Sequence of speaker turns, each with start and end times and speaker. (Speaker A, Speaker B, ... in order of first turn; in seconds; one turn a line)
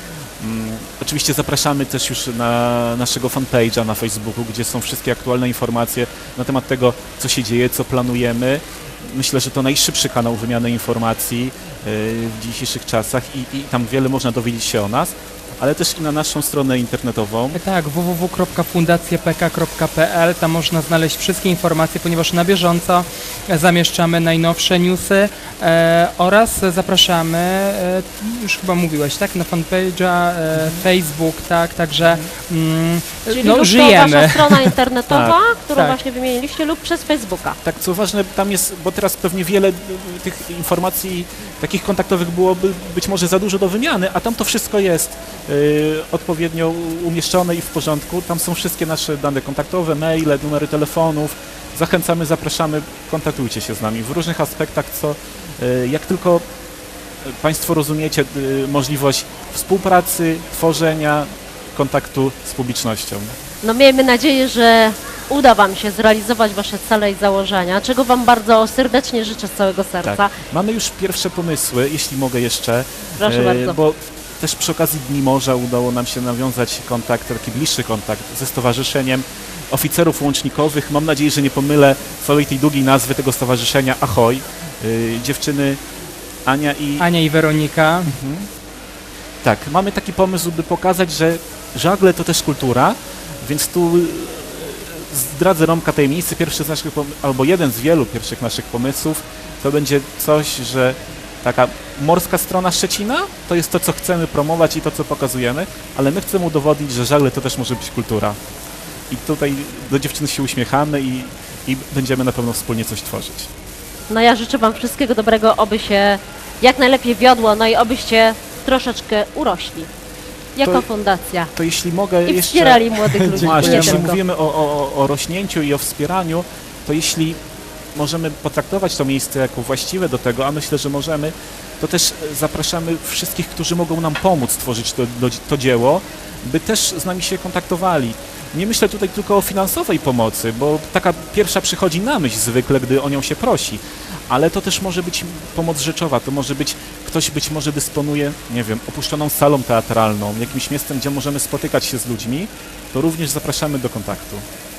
Speaker A: 0.4-17.6
Speaker B: 17.5-34.7
Speaker C: 33.3-37.6
Speaker A: 35.1-35.4
Speaker A: 37.6-56.4
Speaker A: 57.2-63.3
Speaker C: 63.6-70.3
Speaker A: 70.0-85.8
Speaker C: 73.2-73.8
Speaker A: 86.4-87.0
Speaker B: 87.0-88.1
Speaker A: 88.1-88.5
Speaker A: 89.4-108.4
Speaker A: 109.1-113.5
Speaker C: 114.1-119.9
Speaker C: 120.5-121.5
Speaker A: 120.6-120.9
Speaker A: 121.5-127.4
Speaker C: 122.2-124.2
Speaker B: 123.2-124.1
Speaker A: 127.9-154.4